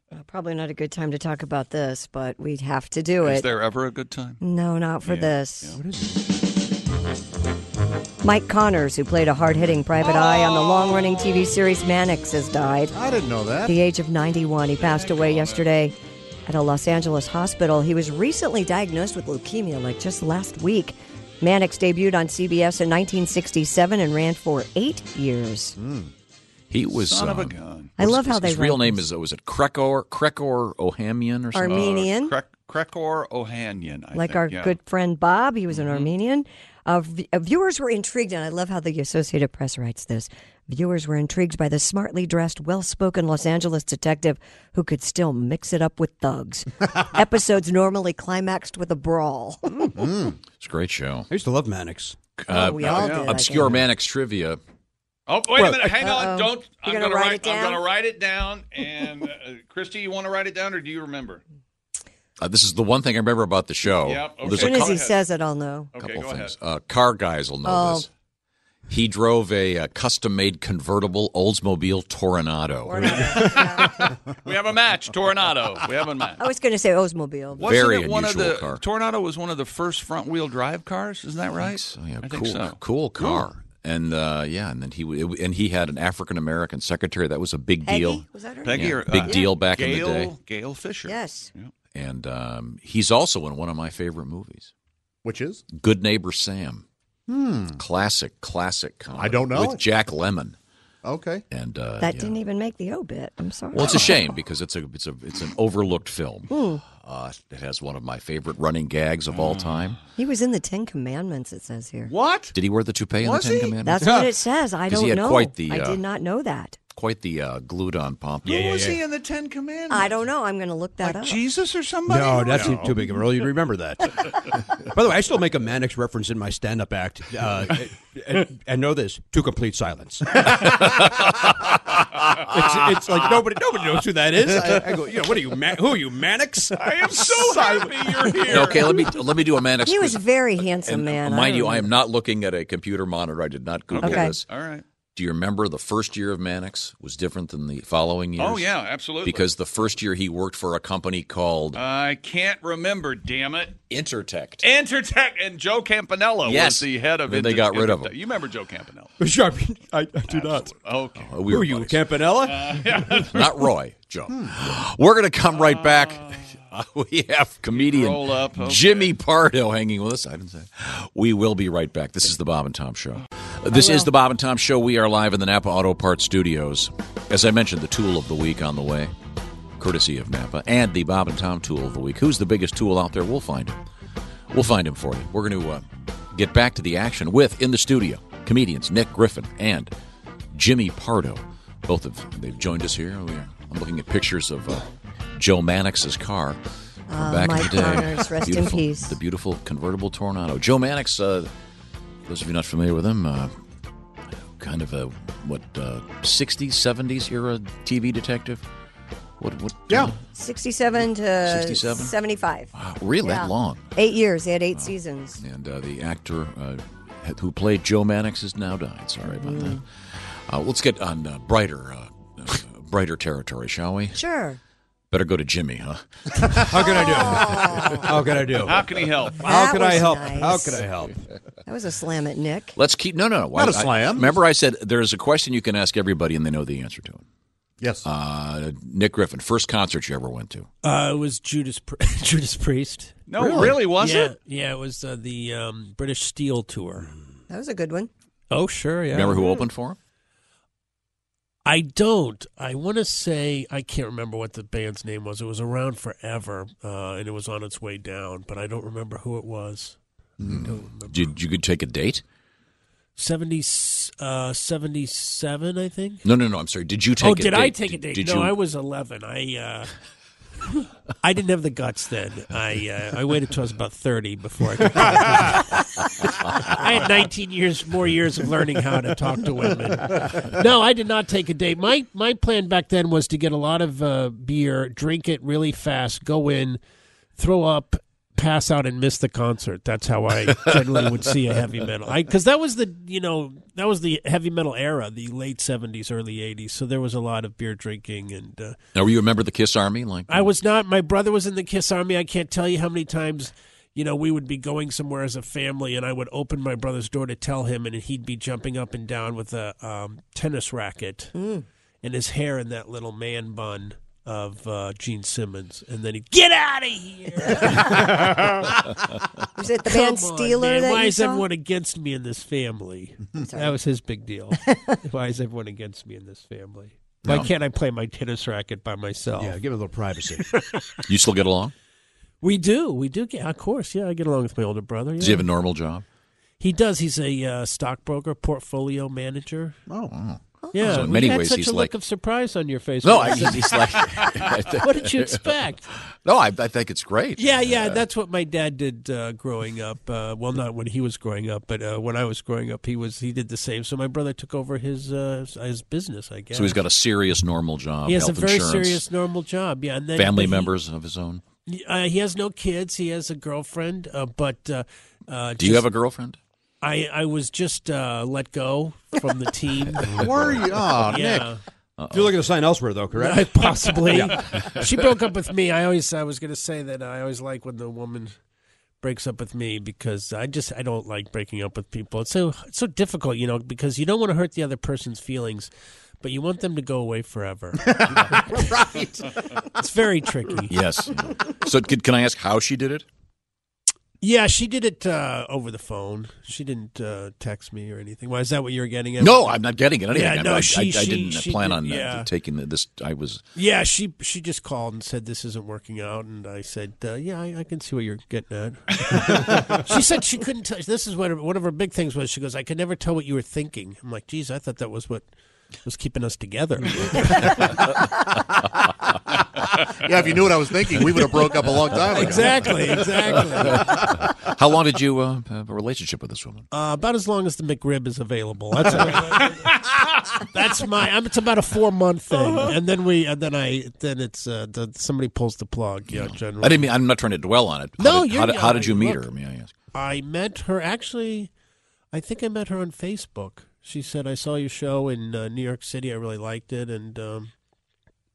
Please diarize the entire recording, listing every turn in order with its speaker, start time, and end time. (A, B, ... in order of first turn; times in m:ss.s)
0:00.2-0:03.5 A
0:03.2-0:04.4 B
0:04.4-0:05.8 A
0:05.0-0:05.8 B
0:08.2-0:13.0 A
0:10.0-0:11.2 B
0:12.9-0:13.8 C
0:13.7-0:15.9 A
0:14.8-0:15.7 B
0:16.5-0:25.8 A
0:25.8-0:26.1 C
0:26.7-0:31.9 D
0:27.0-0:28.0 B
0:28.0-0:29.0 A
0:31.5-0:32.4 A
0:31.6-0:34.8 B
0:34.2-0:49.9 A
0:35.7-0:36.1 B
0:49.7-0:50.1 E
0:50.0-0:50.3 C
0:50.6-0:51.3 D
0:51.3-0:52.2 E
0:52.4-0:54.6 D
0:52.5-0:53.8 A
0:52.8-0:53.4 B
0:55.3-1:01.4 B
0:55.6-0:56.0 E
0:56.0-0:57.8 A
1:02.4-1:05.0 D
1:04.0-1:05.2 B
1:04.5-1:05.9 A
1:05.9-1:06.5 B
1:06.0-1:08.1 D
1:07.6-1:08.1 A
1:08.9-1:13.4 D
1:12.9-1:14.2 A
1:13.0-1:16.4 B
1:16.4-1:17.8 A
1:17.6-1:22.8 B
1:17.6-1:18.8 D
1:21.6-1:30.3 D
1:27.8-1:29.5 A
1:28.6-1:31.7 B
1:31.0-1:31.5 A
1:31.9-1:34.7 D
1:35.2-1:35.6 C
1:35.7-1:36.9 D
1:37.3-1:37.8 C
1:37.8-1:40.6 D
1:39.2-1:39.8 C
1:41.0-1:41.4 C
1:41.5-1:42.4 D
1:42.0-1:44.1 A
1:43.7-1:50.0 D
1:46.5-1:46.8 A
1:49.4-1:49.9 B
1:50.2-1:52.1 A
1:52.1-1:52.5 B
1:52.5-1:54.2 D
1:53.2-1:53.8 B
1:53.8-1:56.8 A
1:54.0-1:54.3 E
1:54.9-1:56.0 D
1:56.9-1:58.7 D
1:58.4-2:00.1 B
1:58.5-1:59.0 E
1:59.9-2:01.4 A
2:01.0-2:03.0 B
2:02.1-2:04.3 E
2:02.4-2:02.7 A
2:04.8-2:11.0 E
2:12.3-2:18.3 E
2:16.8-2:18.9 B
2:18.5-2:20.2 D
2:19.8-2:21.9 A
2:20.8-2:24.5 D
2:23.9-2:24.8 B
2:24.0-2:24.3 A
2:25.2-2:28.7 D
2:28.4-2:29.5 B
2:29.2-2:31.8 D
2:31.8-2:33.8 B
2:33.9-2:34.7 D
2:34.6-2:39.1 B
2:36.4-2:38.1 D
2:39.2-2:40.8 E
2:40.3-2:41.3 B
2:41.2-2:42.0 D
2:41.5-2:43.0 E
2:42.4-2:43.5 B
2:43.2-2:59.1 D
2:44.3-2:44.6 C
2:45.5-2:46.4 B
2:47.7-2:49.1 B
2:59.8-3:03.8 D
3:04.5-3:09.9 D
3:10.5-3:16.6 D
3:17.1-3:19.2 A
3:17.2-3:21.5 D
3:22.3-3:23.5 D
3:24.6-3:28.7 D
3:29.4-3:30.2 D
3:29.9-3:30.2 C
3:30.3-3:35.4 A
3:31.4-3:32.1 D
3:32.7-3:33.9 D
3:34.8-3:39.8 D
3:39.3-3:39.8 A
3:40.5-3:44.2 D
3:44.1-3:44.6 A
3:45.1-3:47.0 D
3:46.7-3:51.2 E
3:46.8-3:48.2 A
3:48.6-3:49.5 B
3:49.4-3:50.9 A
3:51.7-3:52.8 A
3:52.8-3:57.2 D
3:53.5-3:54.4 C
3:57.8-3:58.0 C
3:58.0-4:00.7 D
4:00.8-4:03.2 F
4:03.3-4:04.4 B
4:03.4-4:03.9 C
4:04.0-4:07.1 F
4:07.5-4:08.1 A
4:08.5-4:09.6 F
4:09.1-4:10.0 D
4:11.6-4:20.0 F
4:20.4-4:22.2 D
4:20.5-4:21.3 F
4:23.2-4:26.3 F
4:26.2-4:28.6 D
4:27.2-4:29.9 F
4:31.2-4:46.8 F
4:47.4-4:58.8 F
4:59.0-5:00.5 D
5:00.3-5:11.3 F
5:11.4-5:11.6 A
5:12.0-5:19.0 F
5:19.6-5:21.5 A
5:19.8-5:29.6 F
5:23.4-5:23.8 A
5:24.6-5:25.0 A
5:27.2-5:27.5 D
5:29.4-5:30.4 E
5:30.2-5:30.8 F
5:31.0-5:31.7 D
5:32.4-5:35.5 F
5:35.2-5:36.0 D
5:36.6-5:39.8 F
5:39.9-5:40.1 C
5:40.1-5:42.0 D
5:40.7-5:41.0 A
5:40.7-5:45.9 F
5:43.0-5:45.5 D
5:46.2-5:48.0 D
5:47.4-5:56.8 F
5:56.5-5:59.1 D
5:58.1-6:00.7 F
6:00.1-6:01.4 D
6:01.7-6:05.9 F
6:05.6-6:06.4 D
6:06.8-6:10.3 F
6:10.1-6:11.6 C
6:10.2-6:10.6 D
6:11.1-6:11.5 F
6:12.0-6:12.4 D
6:12.1-6:14.4 E
6:13.2-6:18.4 F
6:19.0-6:25.7 F
6:26.2-6:29.0 F
6:27.9-6:29.2 C
6:29.8-6:30.8 F
6:30.7-6:33.1 D
6:34.2-6:39.6 F
6:39.2-6:43.4 D
6:40.1-6:42.3 F
6:43.6-6:55.2 F
6:55.8-6:57.8 F
7:00.0-7:03.9 C
7:02.0-7:03.9 F
7:03.6-7:06.7 D
7:06.7-7:16.9 F
7:16.1-7:19.7 D
7:18.0-7:19.3 F
7:19.9-7:21.5 F
7:22.1-7:27.5 F